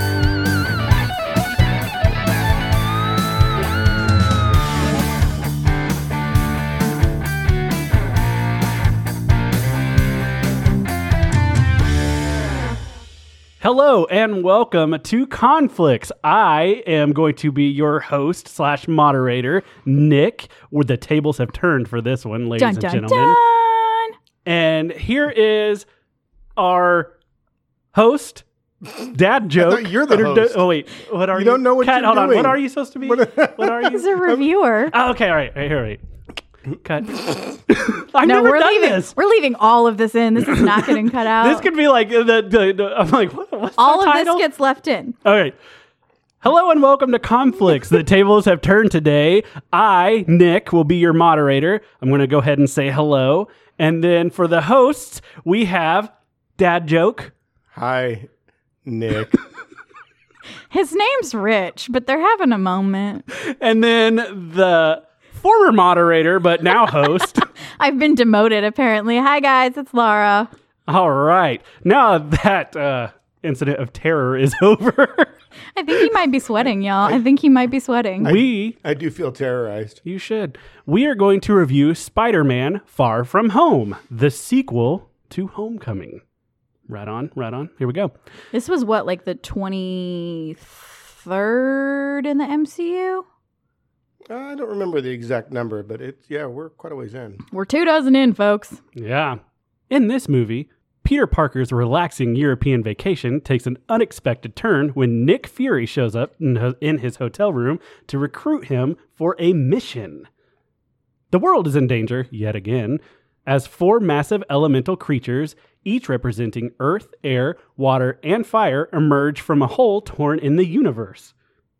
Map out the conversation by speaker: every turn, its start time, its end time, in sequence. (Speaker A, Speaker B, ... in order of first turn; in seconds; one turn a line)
Speaker A: 13.6-23.4
Speaker B: 22.6-24.1
Speaker A: 24.4-25.8
Speaker A: 26.6-27.1
Speaker A: 27.9-34.1
Speaker C: 29.6-30.6
Speaker C: 31.3-34.3
Speaker B: 33.9-34.9
Speaker A: 34.9-36.0
Speaker A: 36.8-39.1
Speaker B: 38.2-41.7
Speaker A: 40.5-44.4
Speaker B: 43.8-45.2
Speaker A: 45.2-45.5
Speaker A: 46.4-57.3
Speaker C: 57.7-58.3
Speaker C: 58.8-59.4
Speaker B: 60.7-63.2
Speaker A: 63.3-67.5
Speaker B: 67.8-70.5
Speaker A: 70.9-75.3
Speaker B: 75.7-78.3
Speaker C: 78.2-80.0
Speaker A: 78.2-78.8
Speaker A: 80.0-86.2
Speaker A: 86.9-88.1
Speaker B: 88.5-93.2
Speaker C: 94.3-97.4
Speaker B: 97.5-98.8
Speaker A: 99.0-110.3
Speaker A: 111.3-121.3